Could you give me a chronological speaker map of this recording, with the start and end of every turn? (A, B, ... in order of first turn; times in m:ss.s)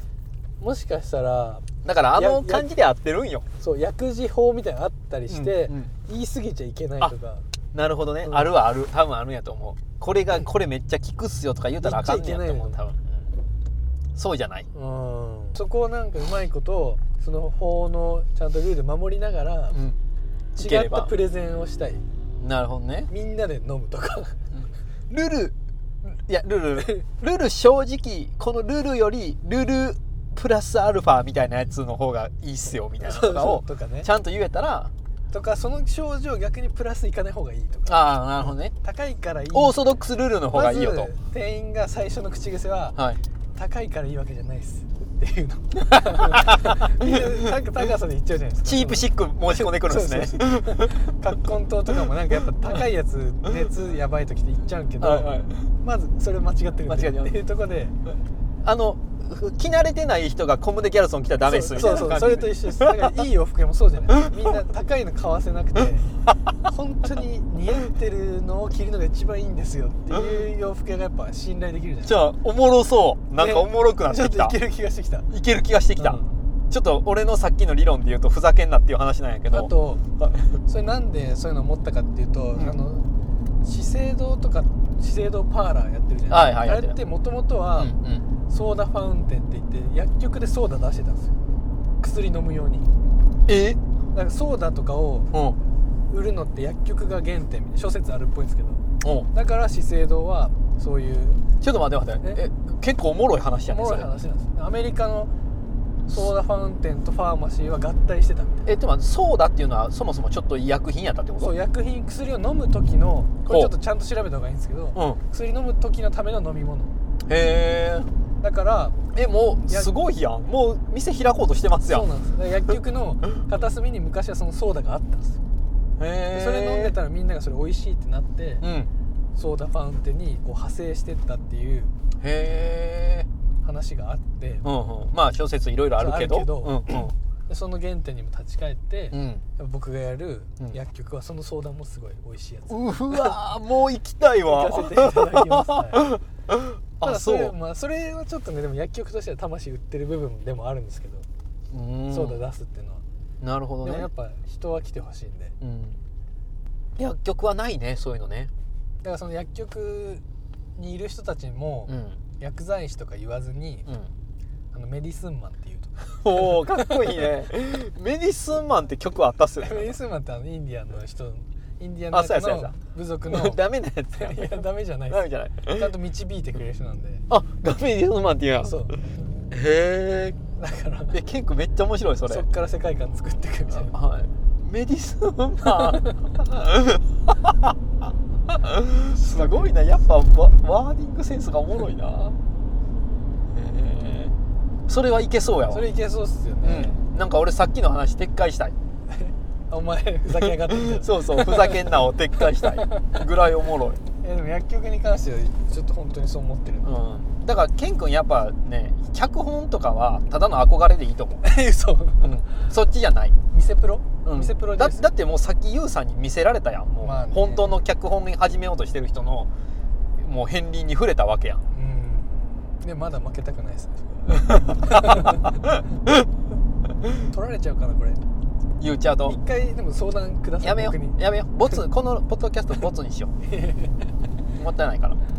0:00.6-0:02.7 A
0:01.8-0:03.5 B
0:03.6-0:07.4 A
0:05.3-0:05.9 B
0:07.7-0:13.3 B
0:11.8-0:12.8 A
0:14.2-0:14.7 B
0:14.7-0:19.8 A
0:19.7-0:20.0 B
0:20.6-0:21.1 B
0:20.6-0:22.0 A
0:22.4-0:23.1 B
0:23.1-0:24.5 A
0:24.6-0:34.9 B
0:33.0-0:34.1 A
0:35.3-0:39.8 A
0:37.9-0:38.8 B
0:39.5-0:41.1 B
0:40.5-0:43.0 A
0:43.6-0:58.0 A
0:45.8-0:47.1 B
0:48.6-0:51.0 B
0:55.0-0:55.7 B
0:56.8-0:57.4 B
0:58.6-1:03.2 B
1:01.4-1:06.1 A
1:06.6-1:12.2 A
1:12.0-1:14.6 B
1:13.4-1:15.3 A
1:15.3-1:20.6 B
1:16.0-1:16.4 A
1:19.5-1:20.0 A
1:20.7-1:23.1 A
1:23.6-1:28.0 A
1:26.3-1:27.0 B
1:27.8-1:28.2 B
1:28.5-1:31.4 A
1:32.0-1:32.9 A
1:33.5-1:33.8 B
1:34.1-1:35.3 A
1:35.3-1:35.6 B
1:36.1-1:41.4 A
1:39.0-1:39.3 B
1:41.6-1:44.1 B
1:43.7-1:45.3 A
1:46.1-1:48.7 A
1:48.6-1:51.5 B
1:51.4-1:57.0 A
1:53.5-1:53.7 B
1:55.0-1:55.2 B
1:57.3-1:58.1 B
1:58.4-1:59.0 A
1:59.1-2:02.1 B
2:01.9-2:05.4 A
2:06.0-2:07.0 B
2:06.3-2:08.6 A
2:08.6-2:08.9 B
2:09.4-2:11.9 A
2:12.2-2:13.3 B
2:13.6-2:14.7 A
2:14.6-2:17.1 B
2:16.0-2:23.4 A
2:19.1-2:19.4 B
2:22.7-2:27.5 B
2:24.5-2:26.2 A
2:27.0-2:31.3 A
2:31.7-2:32.4 B
2:32.1-2:33.0 A
2:33.4-2:34.1 B
2:33.8-2:35.6 A
2:35.6-2:36.0 B
2:37.0-2:38.5 B
2:39.0-2:40.2 A
2:40.8-2:43.9 A
2:41.9-2:42.2 B
2:44.7-2:47.2 A
2:46.2-2:50.0 B
2:49.6-2:53.6 A
2:52.1-2:55.9 B
2:54.1-2:57.2 A
2:57.3-2:58.8 B
2:58.6-2:59.1 A
2:59.5-3:00.4 B
3:00.6-3:01.2 A
3:01.1-3:02.5 B
3:02.3-3:04.0 A
3:03.7-3:07.8 B
3:05.7-3:06.2 A
3:08.5-3:12.4 B
3:09.1-3:09.8 A
3:13.5-3:14.3 B
3:14.9-3:15.9 B
3:15.7-3:17.0 A
3:16.6-3:18.8 B
3:19.1-3:22.0 A
3:20.3-3:24.0 B
3:22.5-3:23.2 A
3:24.2-3:27.0 A
3:26.8-3:31.4 B
3:31.4-3:32.6 A
3:32.2-3:33.4 B
3:33.5-3:35.1 A
3:34.2-3:39.5 B
3:37.0-3:37.8 A
3:40.2-3:41.6 B
3:41.7-3:45.5 A
3:44.4-3:45.5 B
3:47.2-3:48.2 A
3:48.8-3:49.4 B
3:49.2-3:51.2 A
3:50.6-3:53.3 B
3:53.4-3:54.1 A
3:54.6-3:55.2 B